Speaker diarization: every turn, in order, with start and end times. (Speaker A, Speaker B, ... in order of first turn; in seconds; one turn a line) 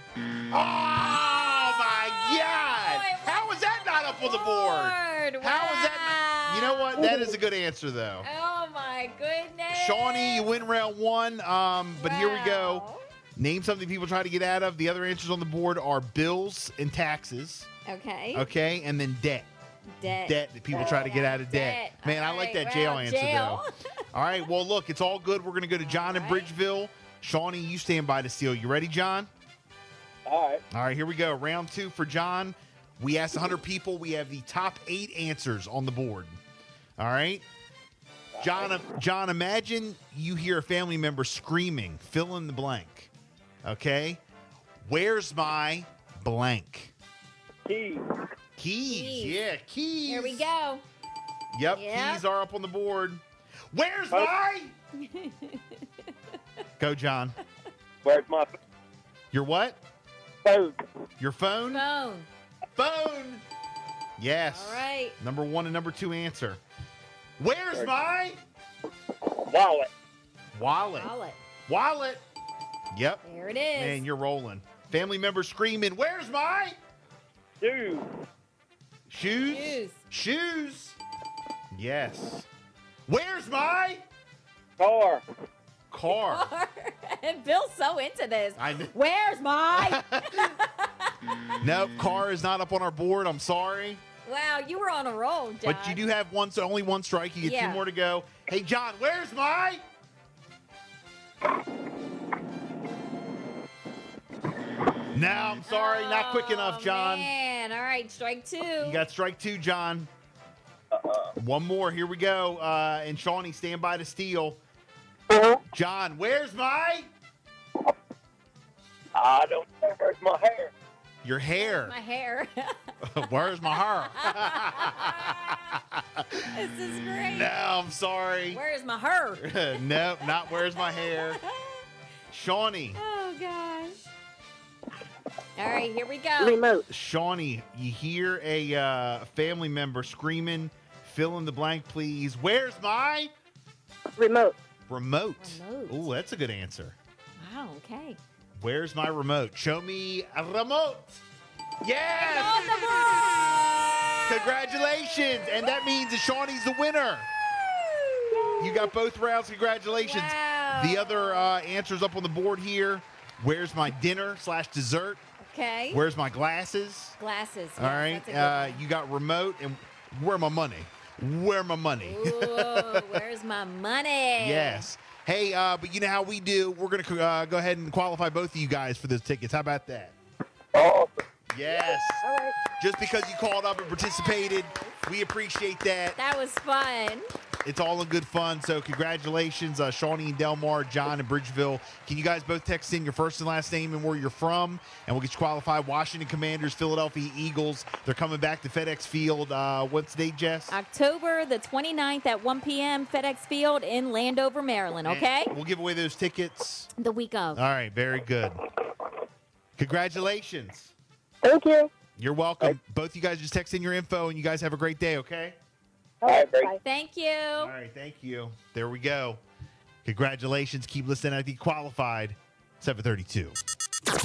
Speaker A: 0.5-8.3
Speaker B: 1.9-7.1
Speaker C: 7.0-7.3
Speaker B: 8.2-10.5
Speaker A: 9.7-17.7
Speaker B: 11.9-13.0
Speaker B: 17.8-18.5
Speaker A: 18.3-19.5
Speaker B: 19.9-23.7
Speaker A: 20.1-29.3
Speaker B: 25.8-26.5
Speaker D: 30.3-30.6
Speaker A: 30.7-36.4
Speaker A: 37.0-37.4
Speaker D: 38.3-38.7
Speaker A: 38.4-43.1
Speaker A: 43.6-44.2
Speaker A: 44.8-46.9
Speaker D: 47.6-48.0
Speaker A: 48.6-50.5
Speaker B: 48.9-49.4
Speaker B: 50.1-50.8
Speaker A: 51.5-54.8
Speaker B: 51.7-52.2
Speaker B: 54.9-55.9
Speaker A: 56.8-57.4
Speaker D: 58.0-58.5
Speaker A: 59.3-59.8
Speaker D: 60.4-60.7
Speaker A: 61.2-61.8
Speaker B: 61.7-62.3
Speaker A: 62.8-63.4
Speaker A: 64.2-66.6
Speaker B: 64.5-65.2
Speaker A: 67.4-68.4
Speaker D: 69.3-69.9
Speaker A: 70.5-71.1
Speaker B: 71.0-71.4
Speaker A: 71.7-72.2
Speaker A: 72.9-73.2
Speaker B: 73.2-74.0
Speaker A: 73.7-76.8
Speaker D: 77.6-78.1
Speaker A: 79.1-81.0
Speaker B: 79.5-80.0
Speaker A: 81.7-82.5
Speaker A: 83.1-84.0
Speaker D: 84.8-85.2
Speaker A: 85.9-86.5
Speaker B: 86.1-91.1
Speaker A: 88.6-88.9
Speaker A: 89.7-90.5
Speaker A: 91.6-94.0
Speaker B: 94.2-96.0
Speaker A: 95.6-99.8
Speaker B: 97.4-97.8
Speaker A: 105.1-107.3
Speaker B: 105.7-109.0
Speaker A: 108.8-110.1
Speaker D: 110.9-111.3
Speaker A: 111.3-114.6
Speaker A: 115.7-117.1
Speaker D: 119.1-120.7
Speaker A: 121.2-122.0
Speaker B: 121.5-122.7
Speaker A: 123.0-126.4
Speaker B: 123.7-125.6
Speaker B: 126.5-127.5
Speaker A: 127.3-128.6
Speaker B: 128.5-131.8
Speaker A: 129.4-131.4
Speaker A: 132.3-133.0
Speaker B: 132.9-134.1
Speaker B: 135.6-136.6
Speaker C: 136.4-136.9
Speaker A: 136.9-143.3
Speaker C: 144.2-144.6
Speaker A: 144.9-146.9
Speaker B: 145.4-146.1
Speaker B: 147.4-148.2
Speaker A: 148.5-151.2
Speaker A: 151.8-152.7
Speaker B: 152.2-153.3
Speaker A: 154.2-157.3
Speaker B: 157.8-158.8
Speaker C: 158.3-158.7
Speaker A: 158.6-165.2
Speaker B: 159.9-161.5
Speaker B: 165.4-166.0
Speaker A: 165.9-167.2
Speaker B: 167.2-168.8
Speaker A: 167.8-173.2
Speaker B: 172.0-174.9
Speaker A: 174.4-180.1
Speaker D: 180.7-181.2
Speaker A: 181.5-182.2
Speaker C: 181.7-182.6
Speaker A: 182.8-186.2
Speaker B: 183.7-185.0
Speaker B: 186.2-187.3
Speaker A: 187.6-200.8
Speaker B: 200.7-205.5
Speaker A: 205.0-206.9
Speaker B: 207.0-207.6
Speaker A: 207.5-208.6
Speaker A: 209.8-210.9
Speaker C: 211.4-211.9
Speaker A: 212.2-215.6
Speaker C: 216.2-216.8
Speaker D: 216.2-216.7
Speaker B: 216.8-217.7
Speaker A: 217.6-219.4
Speaker A: 220.0-223.6